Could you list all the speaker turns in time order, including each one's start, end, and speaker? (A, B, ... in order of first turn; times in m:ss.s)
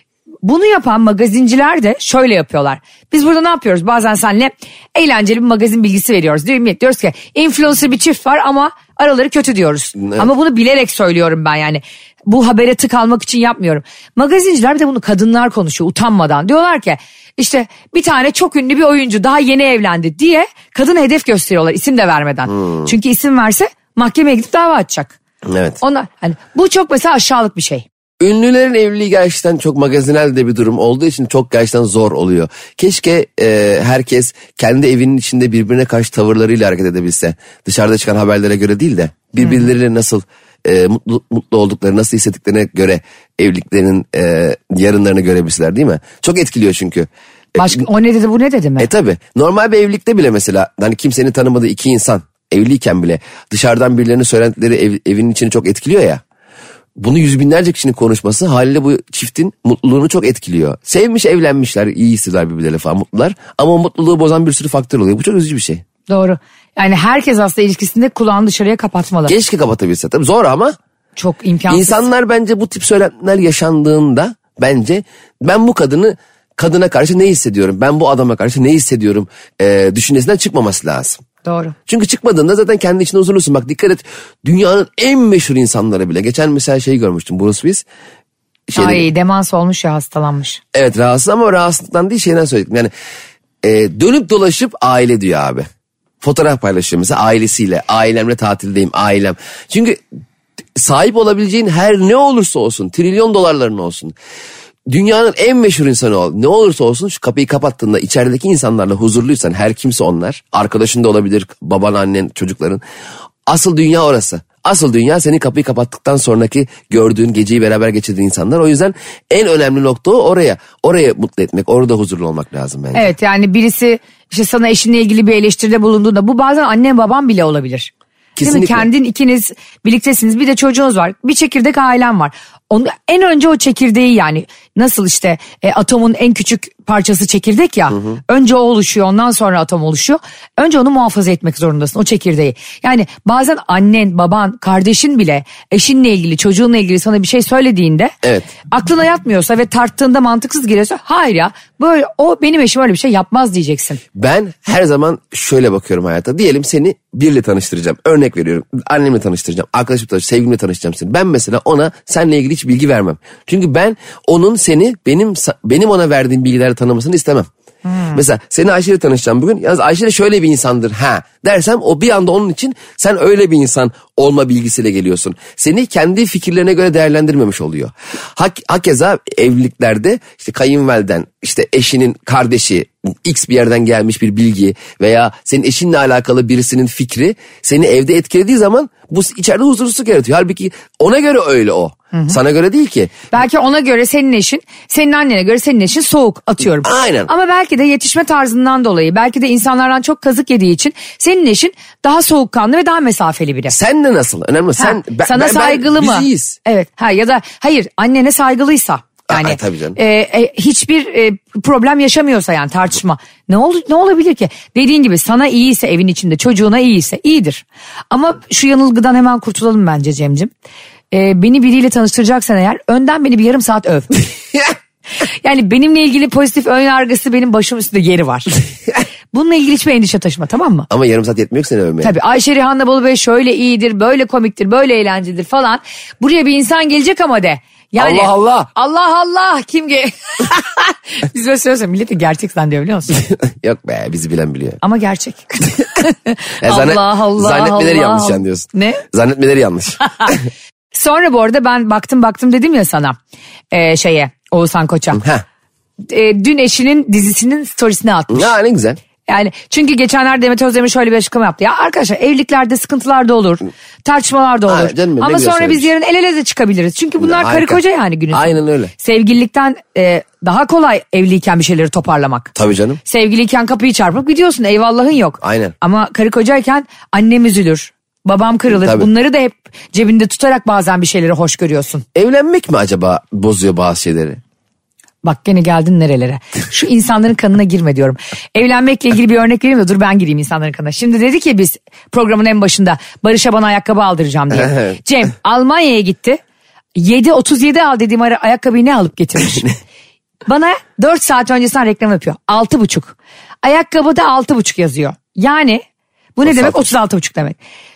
0:00.4-0:25.2 A
0:10.0-0:10.3 B
0:22.6-0:22.9 B
0:25.4-0:25.8 B
0:25.8-0:27.8 A
0:28.2-0:47.8 B
0:47.6-0:48.9 A
0:48.8-0:56.2 B
0:57.0-1:05.8 B
1:06.1-1:09.3 A
1:09.3-1:10.8 B
1:11.2-1:12.0 A
1:11.7-1:21.2 B
1:21.4-1:21.8 A
1:21.9-1:27.9 B
1:28.7-1:29.1 B
1:28.8-1:30.6 A
1:30.7-1:32.9 B
1:33.6-1:35.7 B
1:36.2-1:40.0 B
1:40.8-1:44.2 B
1:44.9-1:52.8 B
1:53.5-2:03.1 B
2:02.9-2:28.1 A
2:08.4-2:08.9 B
2:28.2-2:28.5 B
2:28.7-2:34.0 A
2:34.1-2:47.5 B
2:47.9-2:48.2 A
2:48.1-3:13.1 B
3:13.3-3:23.8 A
3:16.8-3:17.3 B
3:23.7-3:26.6 B
3:24.8-3:40.5 A
3:29.3-3:30.0 B
3:41.1-3:44.1 A
3:45.4-3:48.6 A
3:49.3-3:50.9 A
3:50.9-3:52.1 B
3:52.0-4:03.2 A
3:58.0-3:58.7 B
4:03.1-4:04.8 B
4:04.8-4:09.0 A
4:06.6-4:10.4 B
4:10.9-4:13.2 A
4:13.7-4:15.2 A
4:15.2-4:15.4 B
4:16.0-4:18.5 A
4:18.3-4:19.0 B
4:19.3-4:32.5 A
4:24.7-4:25.9 B
4:27.2-4:27.8 B
4:28.3-4:28.9 B
4:32.6-4:33.0 B
4:33.0-4:42.0 A
4:35.4-4:35.8 B
4:38.7-4:39.1 B
4:42.2-4:44.4 B
4:45.2-4:56.4 A
4:54.5-4:54.8 B
4:57.0-4:59.7 A
5:00.5-5:05.8 A
5:06.4-5:07.6 A
5:06.4-5:06.9 B